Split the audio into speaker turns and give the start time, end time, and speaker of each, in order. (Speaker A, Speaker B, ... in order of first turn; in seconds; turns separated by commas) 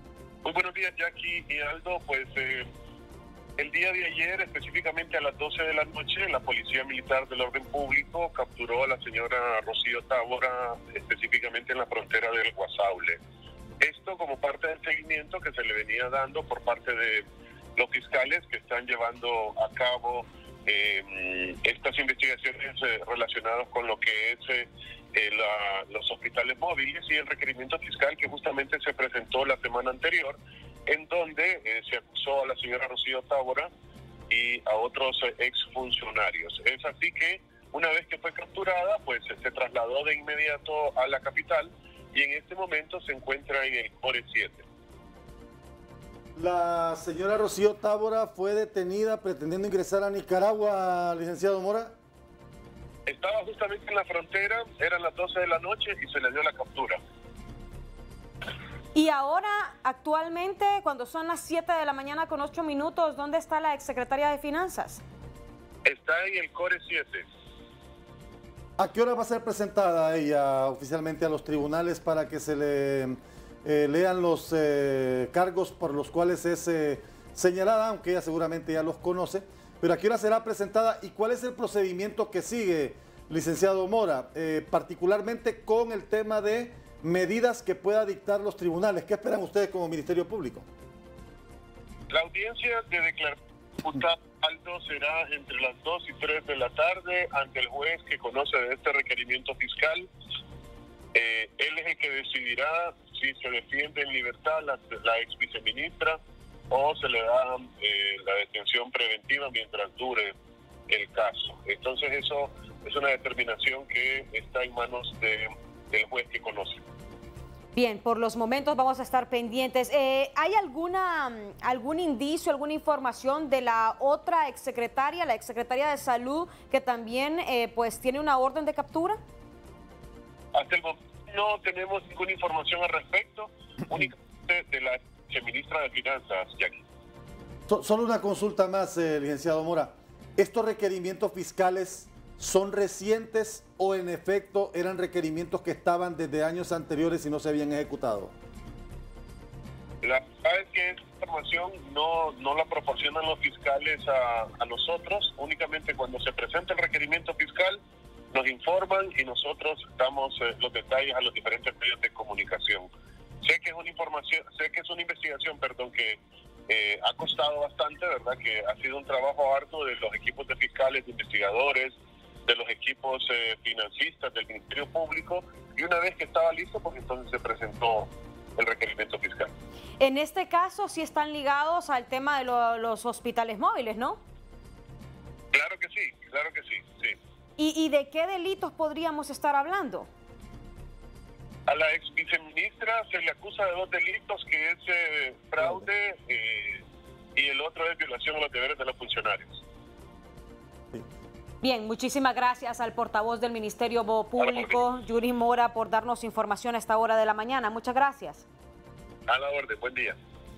Speaker A: 0.4-2.7, Speaker A: 3.6-13.2, Speaker A: 13.8-33.7, Speaker A: 34.3-44.6, Speaker B: 46.4-52.0, Speaker A: 53.0-57.0, Speaker C: 58.9-65.0, Speaker A: 65.8-67.3, Speaker B: 68.8-90.7, Speaker A: 92.1-100.1, Speaker A: 101.1-110.3, Speaker A: 110.9-116.8, Speaker C: 117.7-129.2, Speaker A: 130.5-136.8, Speaker B: 137.7-148.3, Speaker A: 150.0-157.8, Speaker A: 158.3-162.9, Speaker A: 163.4-179.5, Speaker C: 180.0-184.2, Speaker A: 185.5-187.2, Speaker C: 187.6-190.1, Speaker A: 191.7-199.6, Speaker C: 201.6-208.4, Speaker A: 204.4-204.8, Speaker A: 209.3-210.2